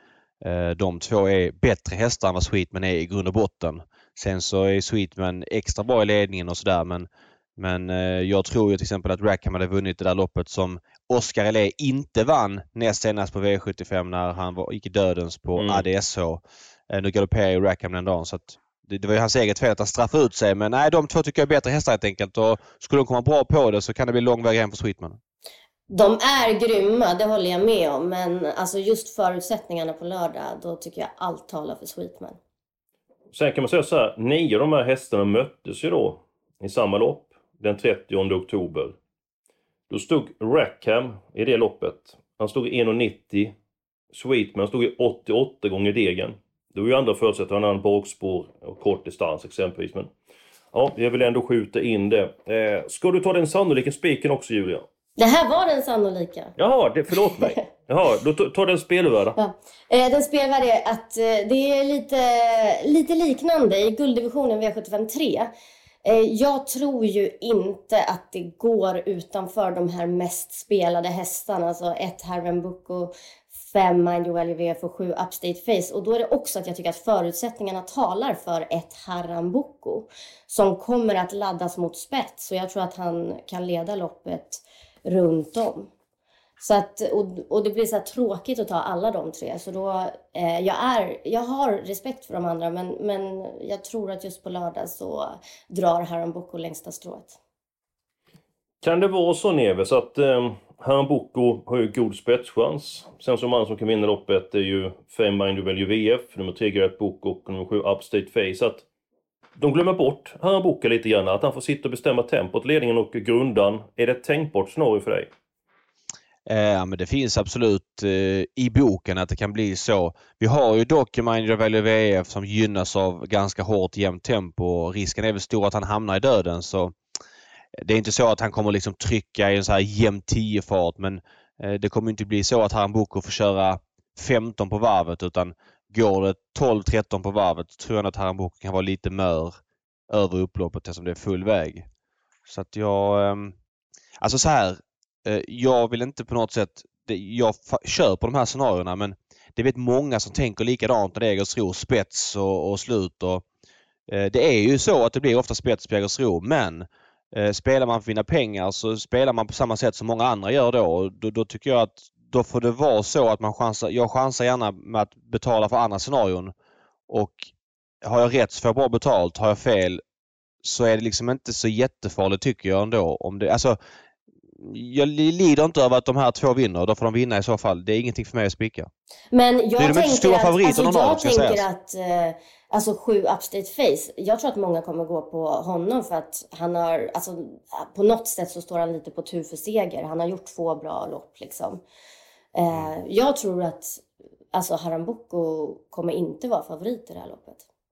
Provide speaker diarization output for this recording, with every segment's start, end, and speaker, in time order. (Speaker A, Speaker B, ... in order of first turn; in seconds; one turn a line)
Speaker A: 0.4-25.2
Speaker B: 15.6-15.8
Speaker C: 25.9-32.4
Speaker B: 33.3-39.0
Speaker B: 39.9-43.5
Speaker B: 44.1-50.1
Speaker B: 50.7-54.9
Speaker C: 55.2-56.5
Speaker B: 56.6-59.4
Speaker C: 57.1-57.6
Speaker C: 59.4-65.5
Speaker C: 66.0-85.9
Speaker C: 86.6-97.4
Speaker B: 98.8-108.9
Speaker B: 109.6-115.3
Speaker A: 116.5-127.0
Speaker A: 127.8-139.6
Speaker A: 140.1-141.9
Speaker A: 142.5-143.6
Speaker A: 144.2-153.4
Speaker A: 154.1-166.5
Speaker A: 167.1-170.0
Speaker A: 170.6-173.8
Speaker A: 174.6-178.9
Speaker C: 179.3-191.8
Speaker A: 179.8-181.6
Speaker C: 192.6-197.7